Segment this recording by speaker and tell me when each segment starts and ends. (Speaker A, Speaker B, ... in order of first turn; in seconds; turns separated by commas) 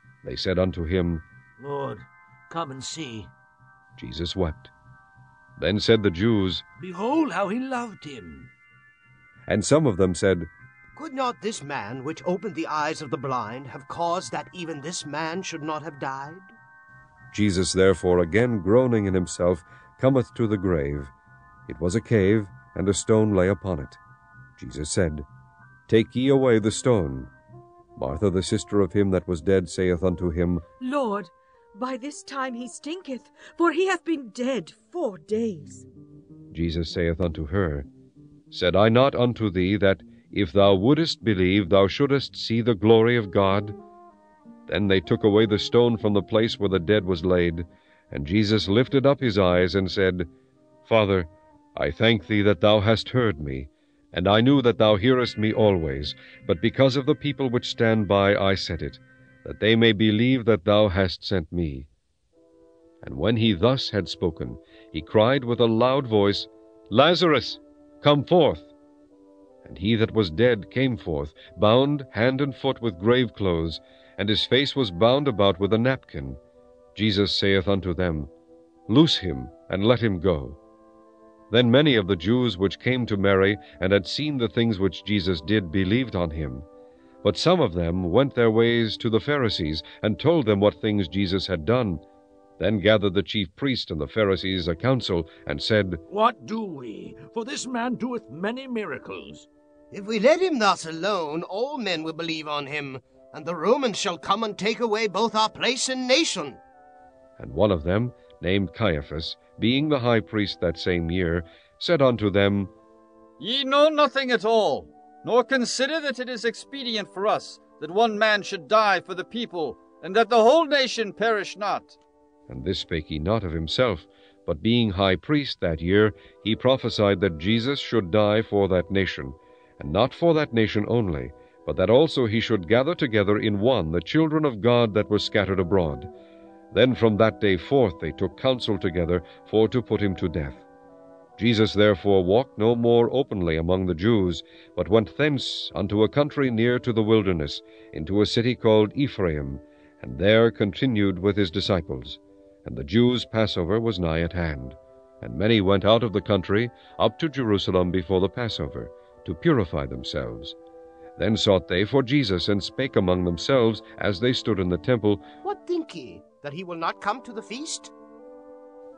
Speaker A: 0.2-1.2, Speaker B: 1.6-3.3, Speaker A: 4.0-4.7, Speaker A: 5.6-6.6, Speaker B: 6.8-8.5, Speaker A: 9.5-10.5, Speaker C: 10.9-16.5, Speaker A: 17.3-21.1, Speaker A: 21.7-24.0, Speaker A: 24.6-25.2, Speaker A: 25.9-27.3, Speaker A: 27.9-30.6, Speaker D: 30.8-35.8, Speaker A: 36.5-37.9, Speaker A: 38.5-43.7, Speaker A: 44.7-50.3, Speaker A: 50.8-61.9, Speaker A: 63.0-68.7, Speaker A: 69.6-76.4, Speaker A: 76.9-78.3, Speaker A: 78.9-80.6, Speaker A: 81.5-86.6, Speaker A: 87.2-92.0, Speaker A: 92.6-96.0, Speaker B: 96.1-99.5, Speaker C: 99.9-106.6, Speaker A: 107.4-112.7, Speaker E: 113.4-122.0, Speaker A: 122.5-136.1, Speaker A: 136.7-140.6, Speaker A: 141.4-160.6, Speaker A: 161.2-165.3, Speaker C: 165.4-167.9